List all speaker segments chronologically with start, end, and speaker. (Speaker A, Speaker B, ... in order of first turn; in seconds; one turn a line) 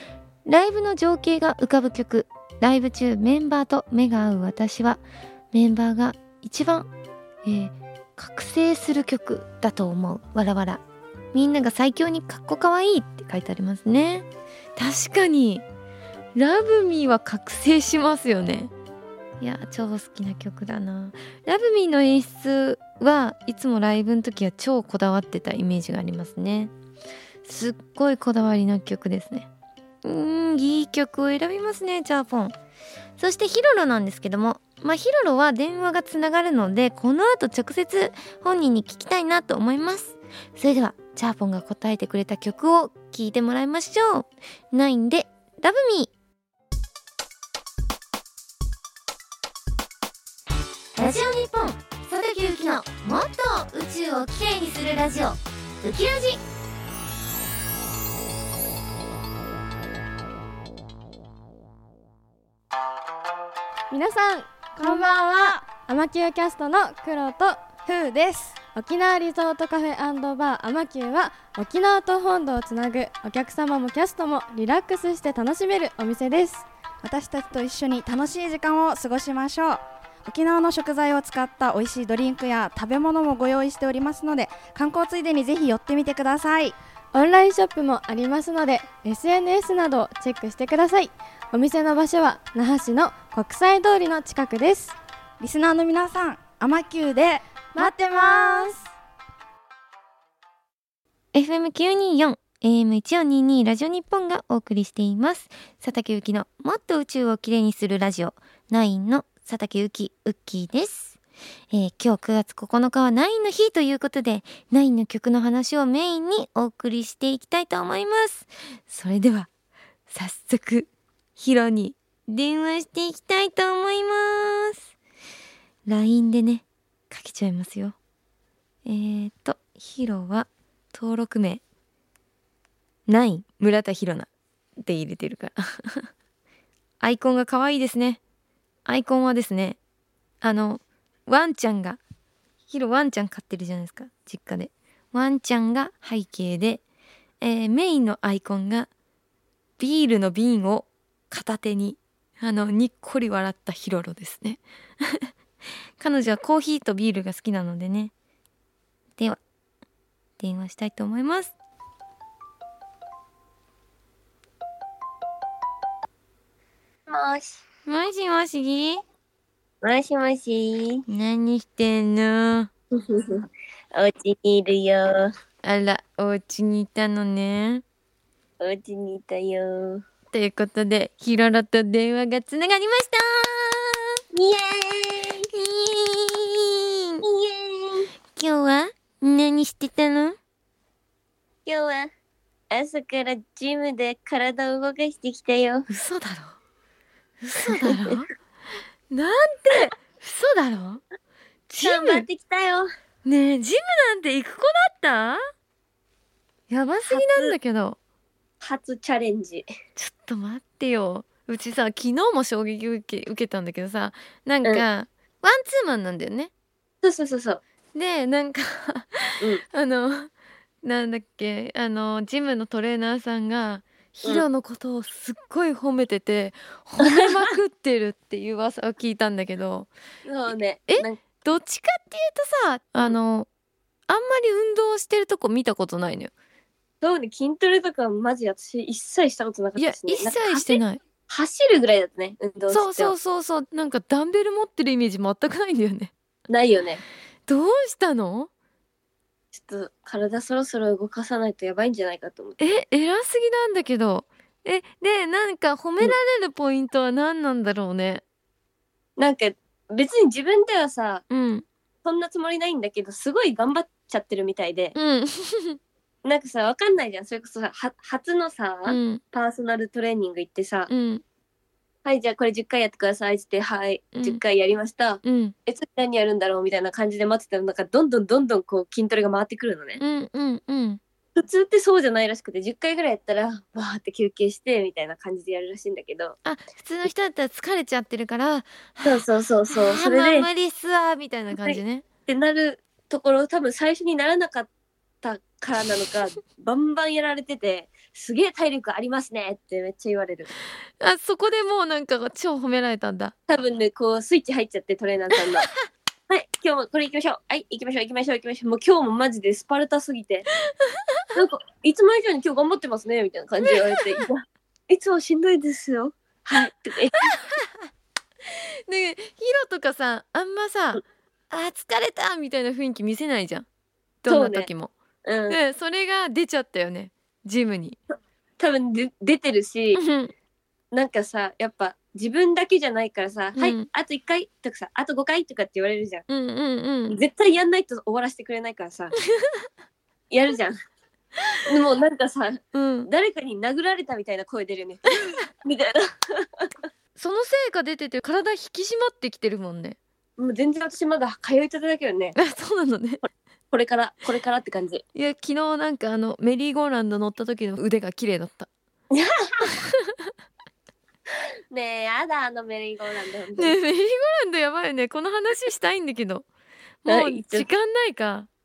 Speaker A: 0.5-5.0
Speaker A: 5.5-6.9
Speaker A: 7.4-10.8
Speaker A: 11.3-15.6
Speaker A: 16.3-18.7
Speaker A: 19.4-26.7
Speaker A: 27.4-29.5
Speaker A: 30.0-32.5
Speaker A: 33.2-46.1
Speaker A: 51.0-56.4
Speaker B: 63.9-67.6
Speaker C: 64.8-65.6
Speaker C: 67.8-68.6
Speaker B: 68.7-76.7
Speaker C: 77.0-86.8
Speaker B: 87.1-95.0
Speaker C: 95.4-98.8
Speaker B: 97.7-98.8
Speaker A: 101.3-111.2
Speaker A: 111.7-119.5
Speaker A: 120.1-124.9
Speaker A: 125.9-128.0
Speaker A: 128.8-131.6
Speaker A: 133.1-136.1
Speaker A: 137.0-138.2
Speaker A: 138.8-139.8
Speaker A: 140.4-142.0
Speaker A: 142.7-146.8
Speaker A: 147.4-148.9
Speaker A: 149.8-155.3
Speaker A: 156.0-158.1
Speaker A: 160.4-161.5
Speaker D: 167.1-167.6
Speaker A: 167.8-169.0
Speaker D: 169.8-171.0
Speaker A: 171.1-172.7
Speaker D: 172.9-175.3
Speaker A: 175.6-177.8
Speaker D: 178.6-180.0
Speaker A: 180.3-184.0
Speaker D: 184.3-185.5
Speaker A: 185.5-187.2
Speaker D: 187.2-188.1
Speaker A: 188.3-190.4
Speaker D: 191.7-192.1
Speaker D: 192.7-195.8
Speaker A: 195.9-196.6
Speaker A: 197.4-198.3
Speaker D: 197.7-198.1
Speaker A: 199.1-201.0
Speaker A: 201.7-202.2
Speaker D: 201.8-202.9
Speaker A: 203.2-205.4
Speaker A: 206.7-208.0
Speaker D: 207.1-207.5
Speaker D: 208.6-209.7
Speaker A: 209.9-216.5
Speaker D: 217.0-217.6
Speaker A: 217.9-220.3
Speaker A: 220.8-229.9
Speaker D: 227.0-227.3
Speaker D: 230.2-231.2
Speaker A: 230.9-233.5
Speaker A: 234.1-236.3
Speaker D: 237.0-243.1
Speaker A: 239.8-241.0
Speaker A: 242.7-246.1
Speaker D: 246.5-247.0
Speaker A: 247.5-248.5
Speaker D: 249.5-252.6
Speaker A: 252.6-258.2
Speaker D: 259.2-261.2
Speaker A: 261.3-261.6
Speaker D: 262.0-264.9
Speaker A: 264.9-265.8
Speaker D: 266.2-270.9
Speaker A: 268.9-269.2
Speaker A: 270.9-271.2
Speaker D: 272.0-280.0
Speaker A: 274.1-274.4
Speaker A: 275.2-275.5
Speaker A: 280.0-281.0
Speaker D: 281.3-286.4
Speaker A: 286.4-292.0
Speaker D: 289.0-290.5
Speaker D: 291.5-294.7
Speaker D: 295.2-300.5
Speaker A: 301.0-303.3
Speaker D: 303.5-305.7
Speaker D: 306.3-310.4
Speaker A: 310.9-311.2
Speaker D: 311.3-317.3
Speaker A: 313.6-314.3
Speaker A: 317.2-317.7
Speaker A: 318.5-323.6
Speaker A: 324.2-324.9
Speaker D: 324.3-324.7
Speaker D: 325.2-325.6
Speaker A: 325.5-328.0
Speaker D: 328.6-330.0
Speaker A: 329.9-330.3
Speaker D: 330.9-336.2
Speaker A: 333.6-333.9
Speaker A: 336.3-337.2
Speaker D: 337.1-339.1
Speaker A: 339.3-339.6
Speaker D: 340.3-340.8
Speaker D: 341.6-346.7
Speaker A: 342.7-343.1
Speaker A: 347.1-350.0
Speaker D: 350.4-352.4
Speaker A: 352.4-353.2
Speaker D: 353.7-355.0
Speaker A: 355.1-358.7
Speaker D: 359.1-359.7
Speaker A: 359.7-360.3
Speaker D: 361.7-363.8
Speaker A: 363.6-366.4
Speaker A: 367.0-368.5
Speaker D: 367.1-367.7